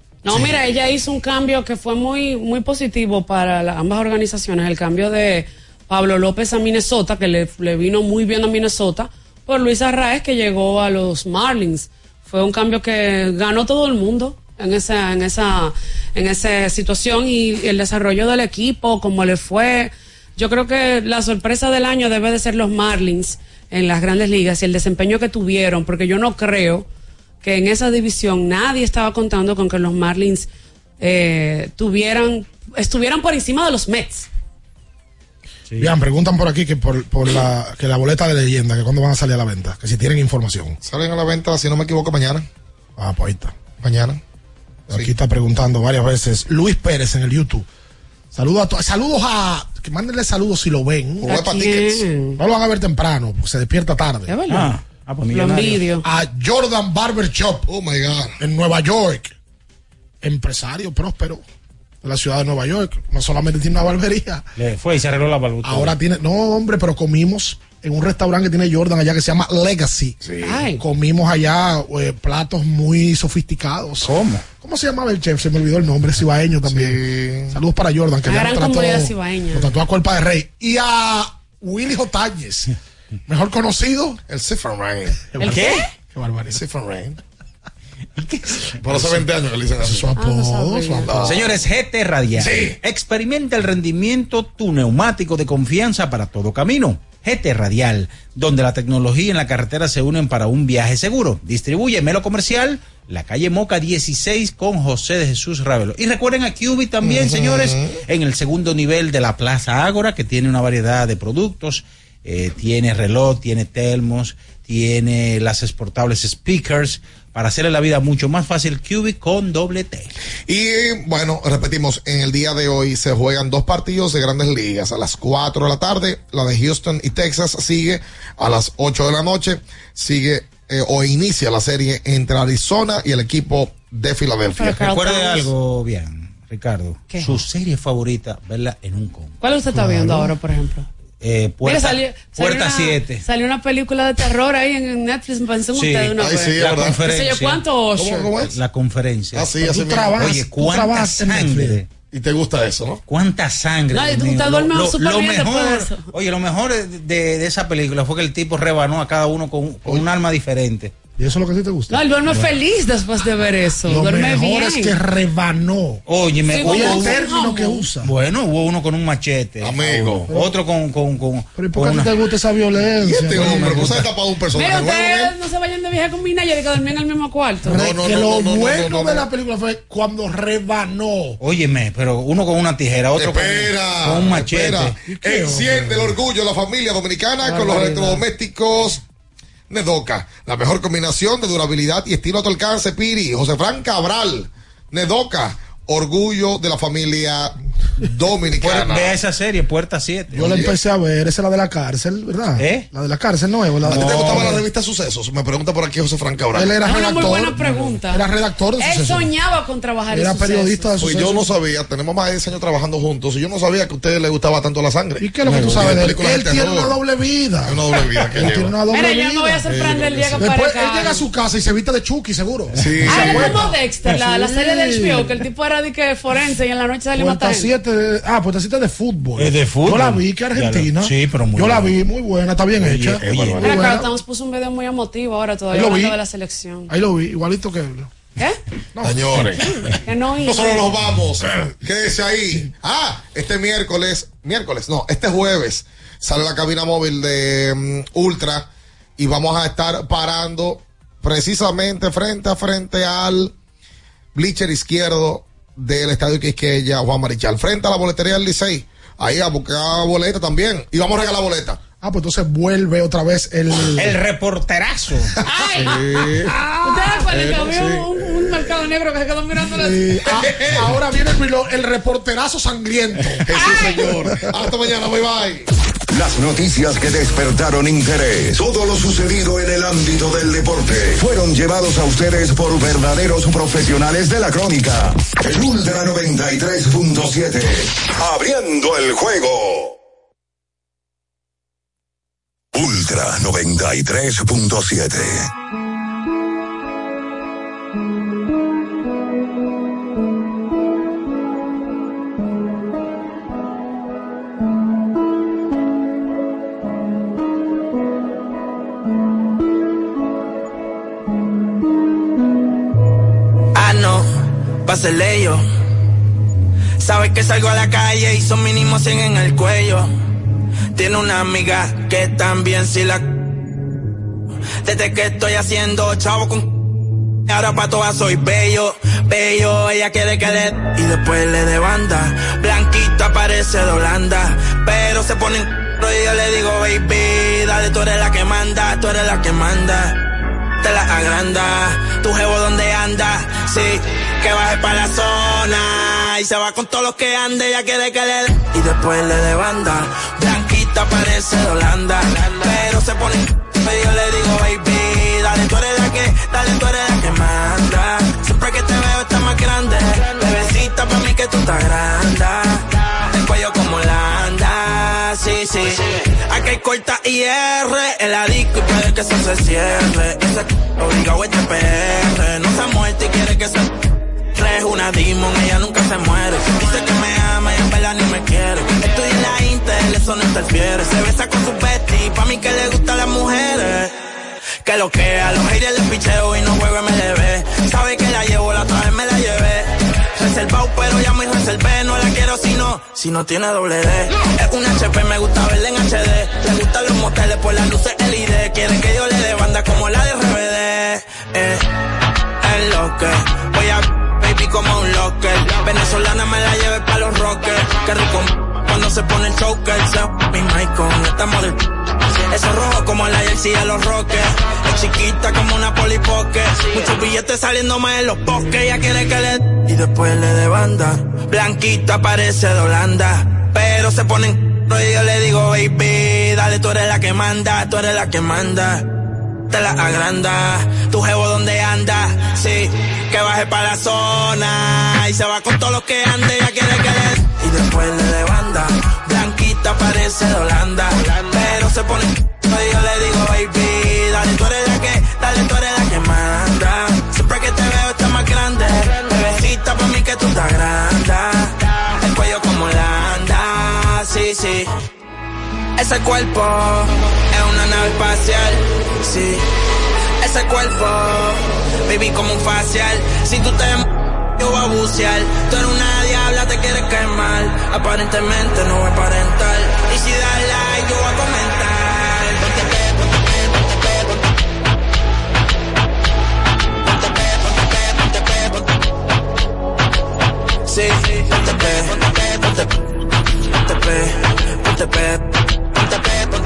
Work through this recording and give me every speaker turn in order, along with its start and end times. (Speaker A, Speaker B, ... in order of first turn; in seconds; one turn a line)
Speaker A: 0.2-26.9
Speaker A: 27.4-30.5
Speaker A: 31.0-34.3
Speaker B: 35.8-40.8
Speaker C: 40.8-42.5
Speaker B: 43.0-43.6
Speaker C: 43.8-44.2
Speaker B: 44.9-47.7
Speaker B: 48.3-51.3
Speaker C: 51.2-52.0
Speaker A: 51.2-52.4
Speaker B: 52.4-54.4
Speaker A: 54.3-54.7
Speaker D: 54.5-55.9
Speaker A: 55.3-56.0
Speaker B: 56.0-57.7
Speaker C: 57.7-58.4
Speaker B: 58.4-59.3
Speaker B: 60.2-61.4
Speaker B: 62.0-64.5
Speaker D: 64.6-66.0
Speaker B: 65.6-70.2
Speaker C: 70.2-70.6
Speaker A: 70.4-70.8
Speaker B: 70.7-82.7
Speaker D: 74.0-74.5
Speaker C: 76.7-77.6
Speaker A: 78.2-79.7
Speaker B: 83.3-84.2
Speaker C: 84.3-85.2
Speaker B: 85.3-86.6
Speaker A: 85.4-85.8
Speaker D: 85.4-85.8
Speaker C: 86.5-87.2
Speaker D: 88.2-89.1
Speaker C: 88.8-90.1
Speaker B: 89.8-91.2
Speaker A: 90.2-91.2
Speaker C: 91.1-91.6
Speaker D: 91.2-120.1
Speaker C: 92.4-92.8
Speaker C: 107.0-108.0
Speaker C: 120.5-134.8
Speaker A: 134.6-135.5
Speaker D: 134.7-139.4
Speaker A: 137.1-137.4
Speaker A: 139.4-140.9
Speaker B: 139.8-140.3
Speaker D: 141.2-143.2
Speaker A: 141.6-148.3
Speaker D: 145.7-147.6
Speaker C: 146.2-147.0
Speaker C: 148.0-148.6
Speaker D: 148.4-149.5
Speaker C: 149.3-150.2
Speaker B: 149.6-151.8
Speaker D: 150.2-151.9
Speaker C: 152.1-153.0
Speaker D: 153.1-160.9
Speaker A: 153.9-156.1
Speaker B: 161.2-162.0
Speaker A: 161.9-164.9
Speaker B: 163.9-168.1
Speaker D: 166.1-167.2
Speaker A: 166.5-167.9
Speaker D: 168.0-172.1
Speaker C: 169.6-170.3
Speaker B: 171.5-173.9
Speaker C: 173.0-175.3
Speaker D: 173.4-174.1
Speaker A: 174.5-177.8
Speaker C: 177.7-179.3
Speaker B: 177.7-181.4
Speaker D: 181.4-185.0
Speaker C: 183.2-189.0
Speaker B: 185.1-186.2
Speaker A: 187.4-188.2
Speaker C: 189.7-199.2
Speaker D: 198.6-200.6
Speaker B: 200.3-204.6
Speaker C: 200.4-200.8
Speaker D: 202.6-202.9
Speaker D: 203.9-204.6
Speaker C: 203.9-206.7
Speaker B: 206.5-209.3
Speaker A: 206.8-208.3
Speaker A: 208.8-211.1
Speaker B: 210.1-211.5
Speaker C: 211.0-216.9
Speaker B: 215.2-219.7
Speaker C: 217.6-218.7
Speaker A: 218.9-221.2
Speaker C: 219.7-220.4
Speaker B: 220.4-225.3
Speaker C: 222.8-223.5
Speaker A: 223.1-227.7
Speaker B: 227.2-234.1
Speaker D: 229.4-232.0
Speaker D: 232.8-233.8
Speaker C: 233.2-233.7
Speaker A: 233.6-236.9
Speaker B: 235.7-236.2
Speaker B: 236.9-238.1
Speaker B: 239.0-239.4
Speaker C: 239.0-239.7
Speaker A: 240.0-240.9
Speaker C: 240.4-253.5
Speaker C: 254.3-261.8
Speaker B: 262.0-264.2
Speaker D: 264.0-265.4
Speaker A: 265.5-266.0
Speaker C: 265.8-266.6
Speaker B: 265.9-267.2
Speaker A: 266.8-270.4
Speaker C: 267.3-268.1
Speaker B: 269.7-274.3
Speaker C: 270.3-271.0
Speaker C: 273.4-275.7
Speaker A: 273.6-274.1
Speaker E: 276.1-290.0
Speaker E: 292.7-295.5
Speaker F: 313.8-315.6
Speaker F: 317.0-320.1
Speaker F: 320.9-323.4
Speaker F: 324.8-326.9
Speaker F: 327.5-340.2
Speaker F: 340.8-373.9
Speaker F: 374.5-384.1
Speaker F: 384.8-401.9
Speaker F: 402.6-411.8
Speaker F: 412.5-429.1
Speaker F: 429.7-454.9
Speaker F: 456.0-459.7
Speaker F: 460.4-464.1
Speaker F: 464.6-473.9
Speaker F: 477.3-478.6
Speaker F: 480.9-482.9
Speaker F: 483.9-485.4